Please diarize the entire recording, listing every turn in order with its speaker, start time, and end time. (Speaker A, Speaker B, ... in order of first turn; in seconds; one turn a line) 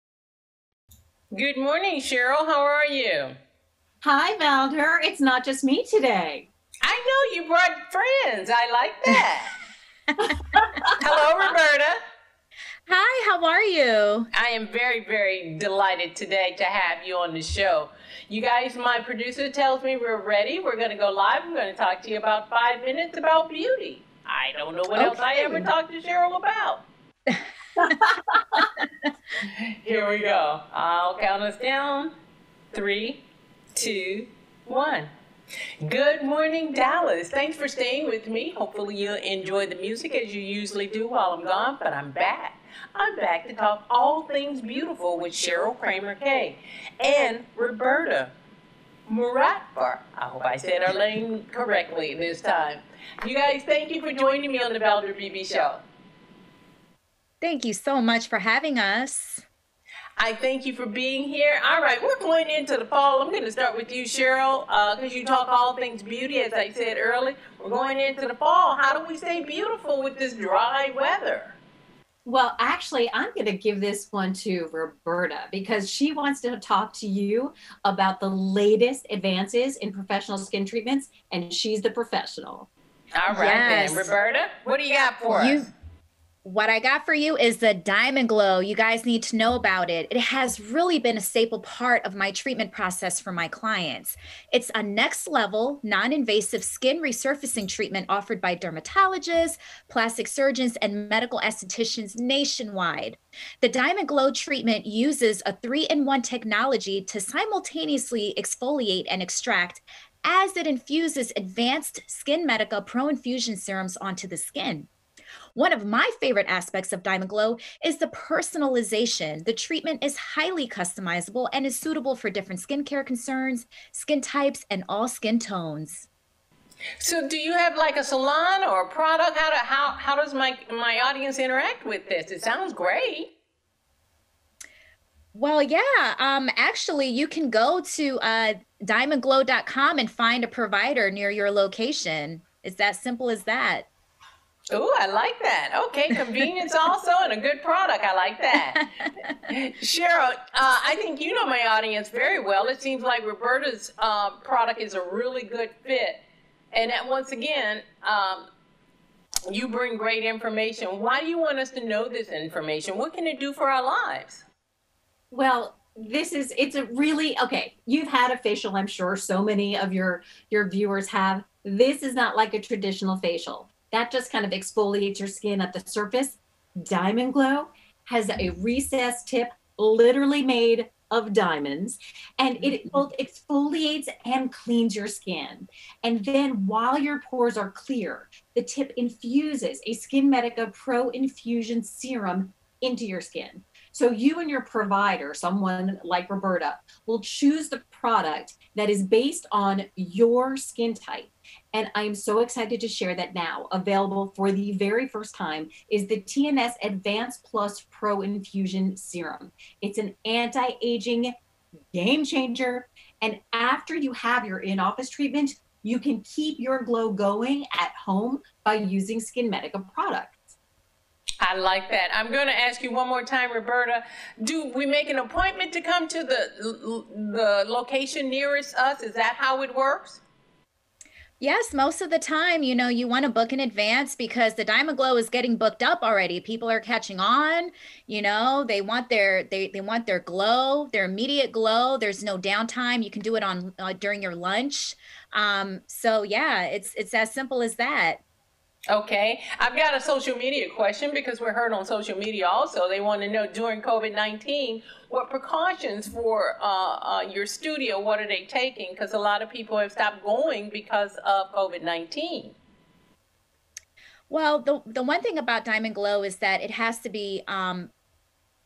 Speaker A: 1.3-3.3
Speaker B: 4.0-6.5
Speaker A: 6.8-9.5
Speaker A: 11.0-12.0
Speaker C: 12.9-14.3
Speaker A: 14.3-26.8
Speaker C: 24.9-25.7
Speaker A: 29.4-32.1
Speaker A: 32.7-33.2
Speaker A: 33.7-35.1
Speaker A: 35.8-48.3
Speaker A: 49.1-55.8
Speaker C: 57.4-59.4
Speaker A: 60.2-71.6
Speaker B: 72.2-82.7
Speaker A: 83.2-85.7
Speaker C: 83.3-84.1
Speaker C: 85.3-85.7
Speaker C: 86.4-114.9
Speaker C: 115.5-126.1
Speaker A: 127.0-133.3
Speaker C: 135.3-143.9
Speaker A: 144.7-148.8
Speaker A: 149.5-156.2
Speaker A: 156.7-158.5
Speaker A: 159.5-164.4
Speaker B: 165.3-211.3
Speaker B: 211.9-220.5
Speaker A: 221.4-230.2
Speaker C: 231.4-248.2
Speaker A: 248.9-262.6
Speaker C: 264.3-267.9